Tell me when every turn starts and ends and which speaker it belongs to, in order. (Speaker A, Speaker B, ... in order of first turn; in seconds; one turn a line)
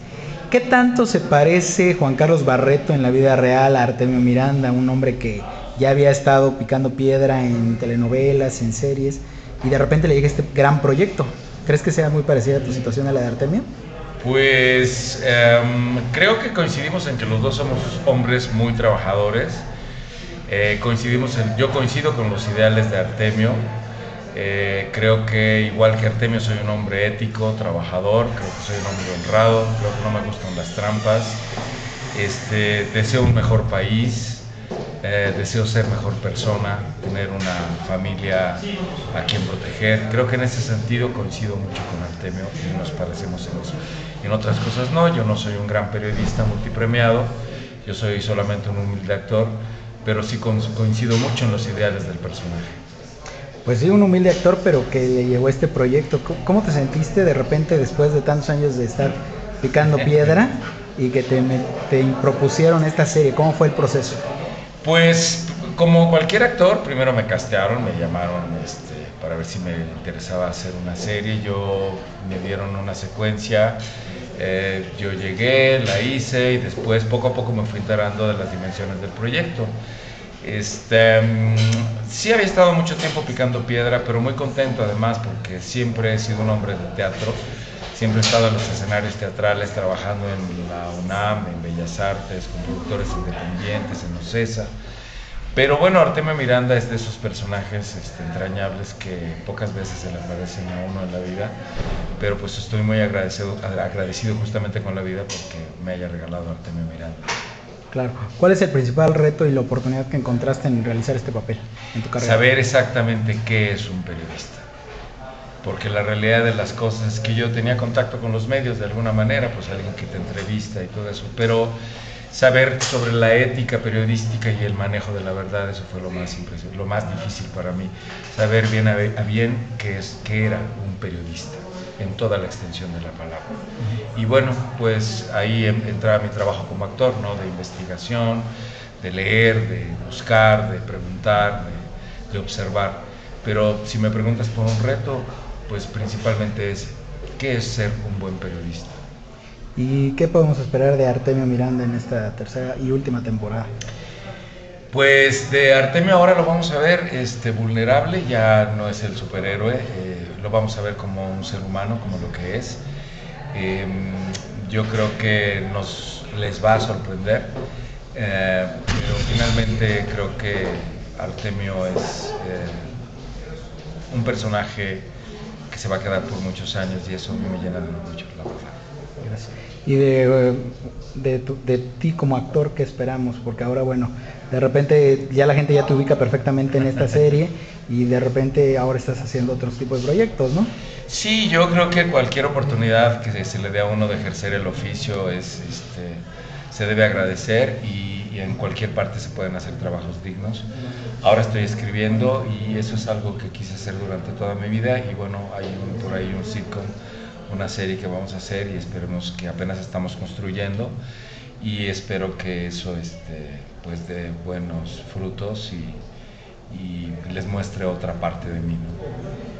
Speaker A: 0.5-13.7
Speaker B: 14.2-19.6
Speaker B: 20.5-23.6
Speaker B: 24.3-31.4
Speaker B: 32.1-34.5
Speaker B: 35.0-47.3
Speaker B: 47.8-52.8
Speaker A: 53.6-64.2
Speaker B: 64.8-73.8
Speaker B: 74.3-79.7
Speaker B: 80.4-87.4
Speaker B: 87.9-94.7
Speaker B: 95.5-101.5
Speaker B: 102.2-107.3
Speaker A: 107.9-112.4
Speaker B: 112.2-114.7
Speaker B: 115.6-121.8
Speaker B: 122.3-133.6
Speaker B: 134.1-138.5
Speaker B: 139.0-148.9
Speaker A: 149.8-153.7
Speaker B: 154.9-162.8
Speaker B: 163.5-167.5
Speaker B: 168.1-172.9
Speaker B: 174.1-175.1
Speaker B: 175.7-178.8
Speaker A: 179.2-190.7
Speaker B: 191.1-200.7
Speaker B: 201.2-206.9
Speaker B: 207.5-210.9
Speaker B: 211.6-216.0
Speaker B: 216.7-219.0